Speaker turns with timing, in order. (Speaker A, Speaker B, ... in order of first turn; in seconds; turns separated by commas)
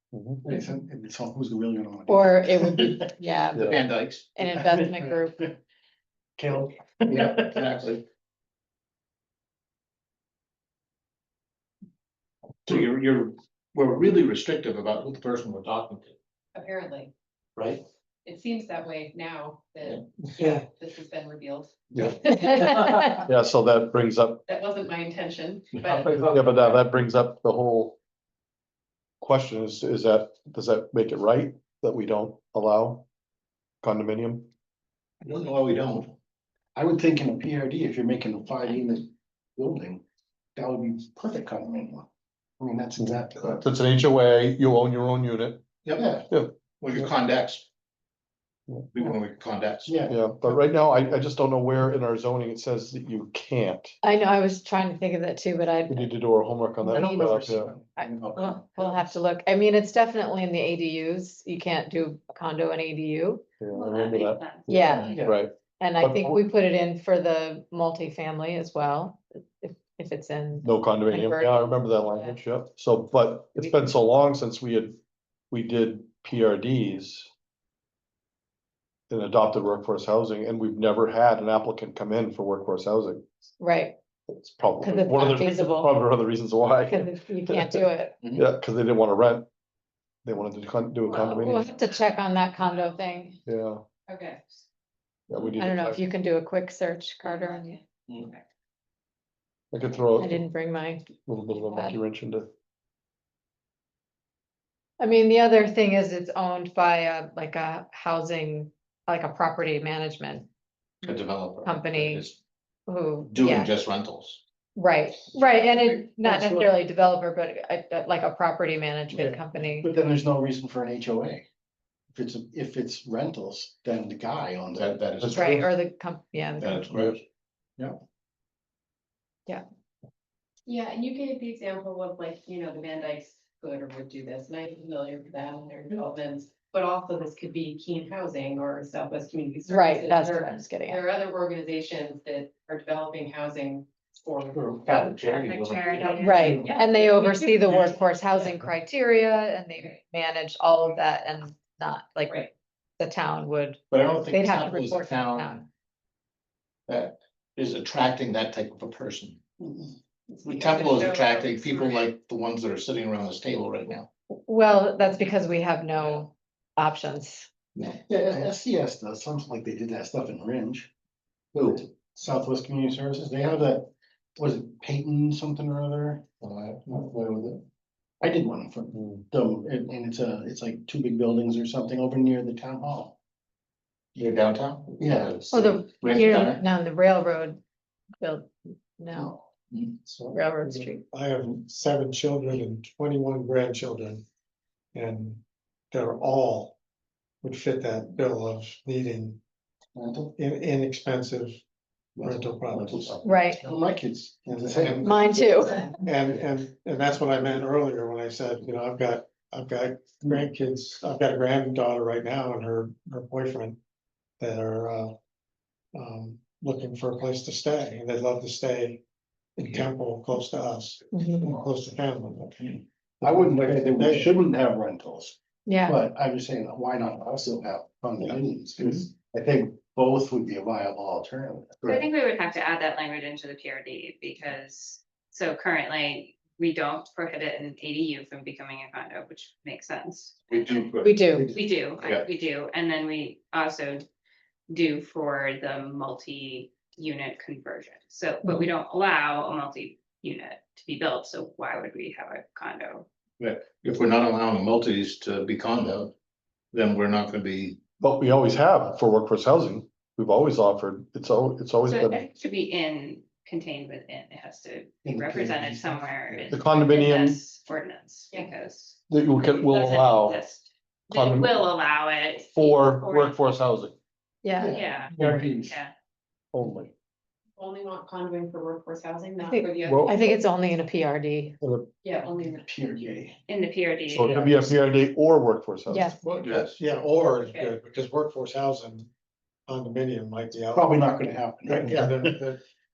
Speaker A: 0.1-0.4, Speaker B: 0.4-3.2, Speaker C: 2.1-5.4, Speaker D: 3.5-4.3, Speaker B: 4.4-5.5, Speaker B: 6.4-7.7, Speaker D: 7.1-8.0, Speaker D: 12.7-16.2, Speaker E: 16.5-17.1, Speaker E: 18.2-22.5, Speaker A: 21.9-24.4, Speaker C: 22.5-23.2, Speaker E: 24.5-26.2, Speaker A: 25.9-28.0, Speaker A: 29.2-33.1, Speaker A: 33.8-34.5, Speaker D: 35.2-36.1, Speaker B: 36.8-40.0, Speaker B: 40.6-42.1, Speaker B: 42.6-43.6, Speaker A: 43.0-45.6, Speaker B: 45.9-46.3, Speaker A: 46.3-47.0, Speaker D: 46.8-47.7, Speaker D: 48.9-50.0, Speaker B: 49.9-50.5, Speaker A: 50.1-54.0, Speaker C: 54.0-57.4, Speaker A: 55.9-57.7, Speaker B: 56.9-59.2, Speaker C: 58.0-63.5, Speaker A: 63.6-66.4, Speaker F: 63.7-64.7, Speaker C: 64.7-65.2, Speaker B: 64.9-65.4, Speaker C: 65.8-72.4, Speaker A: 70.6-75.0, Speaker A: 75.5-77.3, Speaker A: 79.1-83.2, Speaker C: 83.6-84.0, Speaker A: 84.3-89.5, Speaker C: 84.8-85.9, Speaker C: 86.9-88.2, Speaker A: 90.2-91.7, Speaker F: 91.1-93.0, Speaker C: 91.1-93.4, Speaker A: 93.5-93.8, Speaker E: 94.1-94.4, Speaker A: 95.3-96.0, Speaker C: 95.6-97.8, Speaker F: 97.2-98.4, Speaker A: 99.7-100.4, Speaker C: 100.2-101.2, Speaker A: 101.2-102.5, Speaker C: 101.7-102.0, Speaker C: 105.0-110.5, Speaker D: 111.0-112.4, Speaker C: 111.6-112.3, Speaker C: 112.9-113.7, Speaker D: 113.3-114.4, Speaker C: 114.8-119.9, Speaker B: 115.5-116.7, Speaker B: 119.1-121.5, Speaker B: 122.1-125.0, Speaker D: 124.7-125.6, Speaker A: 125.2-125.7, Speaker C: 125.3-127.0, Speaker D: 126.6-127.2, Speaker A: 126.9-127.2, Speaker E: 130.7-145.4, Speaker C: 139.7-141.0, Speaker D: 144.8-146.2, Speaker F: 145.2-146.7, Speaker E: 146.1-148.0, Speaker C: 146.2-155.7, Speaker D: 153.9-155.6, Speaker D: 156.9-159.4, Speaker B: 159.6-159.9, Speaker E: 160.3-162.0, Speaker D: 160.4-164.1, Speaker C: 164.3-167.5, Speaker B: 168.0-170.9, Speaker B: 171.5-176.2, Speaker D: 176.4-177.6, Speaker B: 178.2-183.2, Speaker A: 178.9-179.2, Speaker D: 184.2-186.6, Speaker B: 185.0-186.2, Speaker C: 185.5-187.6, Speaker C: 188.2-189.4, Speaker G: 190.1-194.2, Speaker C: 190.3-191.0, Speaker G: 194.9-196.8, Speaker G: 197.4-199.4, Speaker B: 200.0-200.3, Speaker G: 200.4-201.6, Speaker B: 202.2-206.0, Speaker G: 202.2-203.2, Speaker C: 203.2-203.6, Speaker G: 204.5-205.2, Speaker C: 205.0-205.9, Speaker G: 206.0-213.8, Speaker G: 214.4-215.2, Speaker G: 215.9-219.0, Speaker G: 219.6-224.4, Speaker C: 221.1-221.5, Speaker B: 223.2-232.1, Speaker C: 225.7-226.0, Speaker F: 231.9-240.9, Speaker D: 240.5-241.1, Speaker C: 241.0-241.6, Speaker B: 241.3-241.6, Speaker F: 241.5-244.1, Speaker D: 242.0-242.3, Speaker F: 244.7-253.1, Speaker D: 253.4-256.1, Speaker D: 256.7-257.8, Speaker A: 258.0-262.2, Speaker F: 261.8-273.4, Speaker B: 265.1-266.5, Speaker A: 266.5-267.4, Speaker A: 269.1-270.4, Speaker A: 271.1-271.7, Speaker A: 272.6-273.9, Speaker C: 274.4-274.8, Speaker B: 274.6-275.8, Speaker F: 274.7-275.9, Speaker A: 275.1-275.5, Speaker A: 276.5-276.9, Speaker E: 277.6-280.4, Speaker C: 279.4-281.6, Speaker A: 279.8-280.2, Speaker A: 281.6-281.9, Speaker E: 282.0-282.4, Speaker F: 282.1-282.6, Speaker B: 282.4-283.4, Speaker F: 283.5-284.4, Speaker A: 284.1-286.1, Speaker C: 285.9-286.2, Speaker D: 286.2-286.8, Speaker G: 286.5-289.1, Speaker E: 287.3-287.8, Speaker G: 289.7-291.1, Speaker B: 290.7-292.4, Speaker G: 291.6-292.6